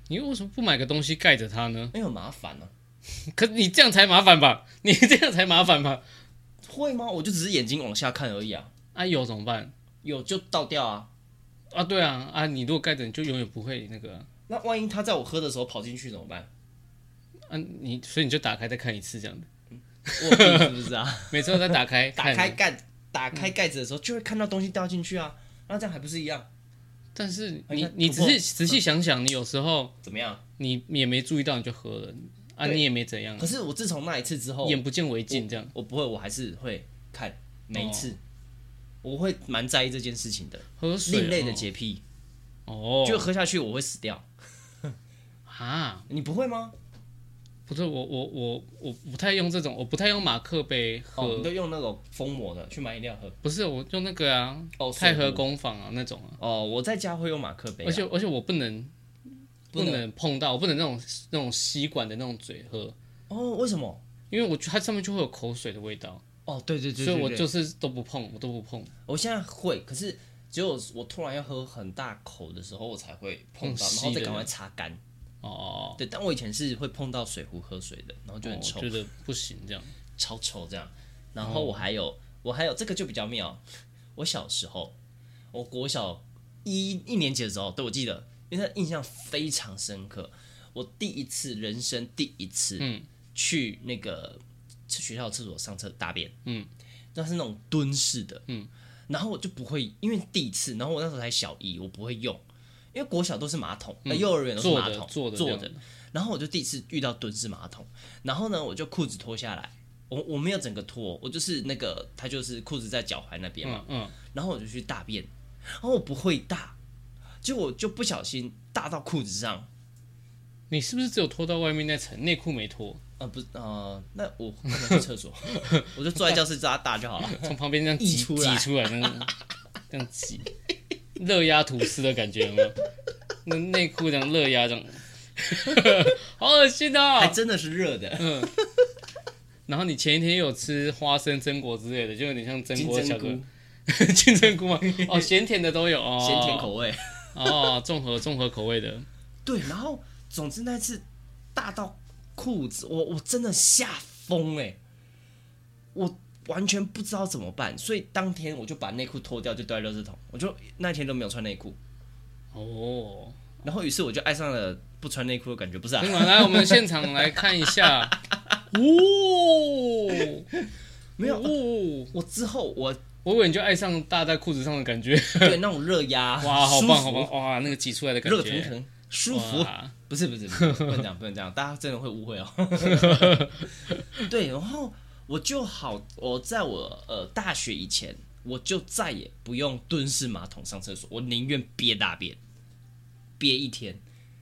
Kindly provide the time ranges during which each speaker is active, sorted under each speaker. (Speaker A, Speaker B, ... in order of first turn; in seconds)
Speaker A: 0.1-1.9, 3.3-6.0, 8.9-9.7, 11.7-14.3, 17.5-19.5, 20.1-20.8, 21.3-22.6, 27.1-29.9, 30.6-33.5, 34.6-35.7, 37.7-38.1, 40.8-41.7, 42.7-43.3, 45.5-46.1, 47.7-51.5, 53.4-56.4, 57.8-58.9, 59.7-63.0, 64.3-66.2, 67.0-68.9, 73.6-74.5, 75.4-76.0, 78.4-79.9, 81.4-81.8, 92.8-93.1, 104.1-105.8, 113.6-114.2, 120.7-123.0, 125.5-125.9, 127.2-129.3, 129.9-130.5, 131.2-132.8, 133.4-137.4, 138.2-138.5, 139.7-146.7, 147.3-149.1, 162.5-163.4, 166.0-168.2, 168.7-170.5, 171.2-172.1, 173.2-175.6, 176.4-178.7, 179.3-179.9, 180.6-181.0, 182.8-184.2
Speaker B: 1.9-2.7, 6.6-8.7, 10.0-11.1, 14.5-16.5, 20.2-26.5, 27.7-28.8, 30.0-30.4, 33.4-38.2, 39.0-42.0, 43.0-44.3, 46.1-46.8, 51.2-53.4, 54.8-55.5, 56.4-58.1, 59.7-60.0, 63.3-64.0, 66.5-67.5, 69.1-75.0, 76.0-78.9, 80.2-83.6, 84.2-85.0, 85.5-96.4, 97.2-98.4, 99.1-116.8, 117.4-119.7, 123.2-129.1, 137.2-138.8, 142.7-143.5, 144.8-145.3, 146.2-147.7, 149.4-154.8, 155.9-161.8, 163.6-168.6, 170.1-171.6, 172.1-173.0, 175.3-177.3, 178.2-183.6, 184.2-192.4, 193.4-194.0